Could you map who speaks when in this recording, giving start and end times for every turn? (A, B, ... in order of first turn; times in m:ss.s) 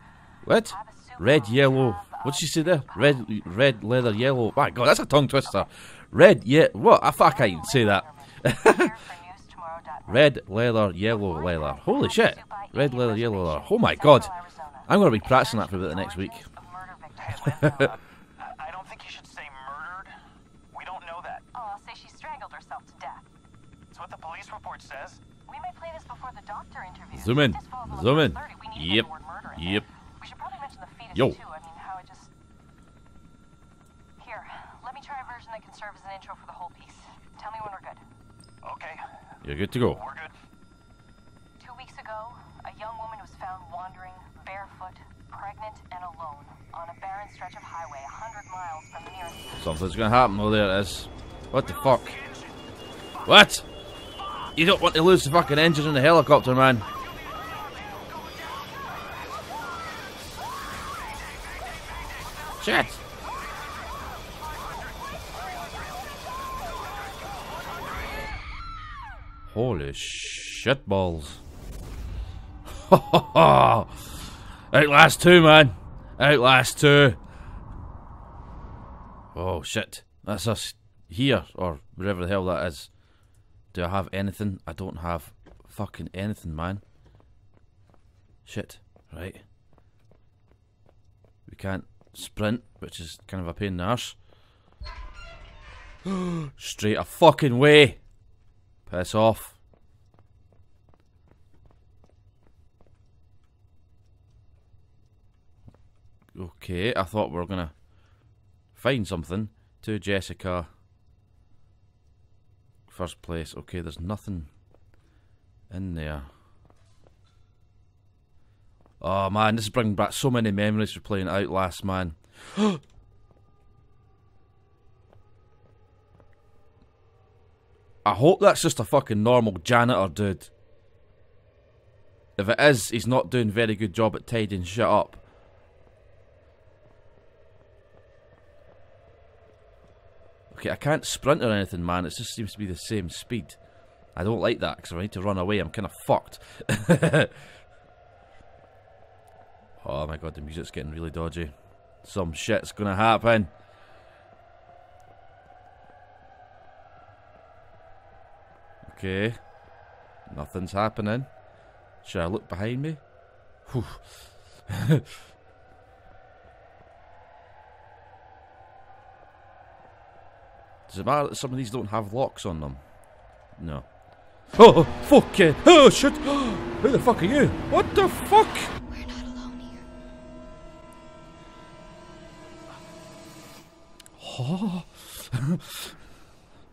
0:00.4-0:08.9 A
0:00.6-0:03.2 B
0:07.1-0:10.3 B
0:10.1-0:14.3 A
0:11.1-0:17.9 B
0:14.9-0:16.4 A
0:17.2-0:20.1 C
0:17.6-0:17.9 A
0:20.7-0:21.4 C
0:21.5-0:23.3 B
0:23.9-0:25.2 C
0:25.4-0:32.3 B
0:27.1-0:29.8 A
0:34.2-0:38.0 B
0:38.6-0:39.0 C
0:39.4-0:40.0 A
0:39.8-0:40.3 C
0:41.6-0:49.7 B
0:49.6-0:52.2 A
0:51.5-0:52.7 C
0:53.2-0:53.7 A
0:54.5-0:56.9 A
0:56.9-1:08.4 C
1:02.6-1:03.0 A
1:09.5-1:11.4 A
1:12.7-1:17.2 A
1:19.3-1:22.9 A
1:23.7-1:26.8 A
1:28.4-1:29.4 A
1:31.4-1:34.2 A
1:36.0-1:38.0 A
1:38.9-1:39.6 A
1:46.3-1:47.8 A
1:48.7-1:50.7 A
1:52.9-1:54.5 A
1:55.7-1:56.3 A
1:59.0-2:02.8 A
2:08.0-2:10.5 A
2:12.4-2:15.2 A
2:20.5-2:23.6 A
2:24.1-2:27.3 A
2:29.8-2:33.5 A
2:38.8-2:39.5 A
2:40.3-2:41.3 A
2:42.0-2:43.0 A
2:43.6-2:45.0 A
2:50.9-2:52.8 A
2:53.5-2:58.7 A
2:58.8-2:59.8 B
3:04.2-3:05.9 A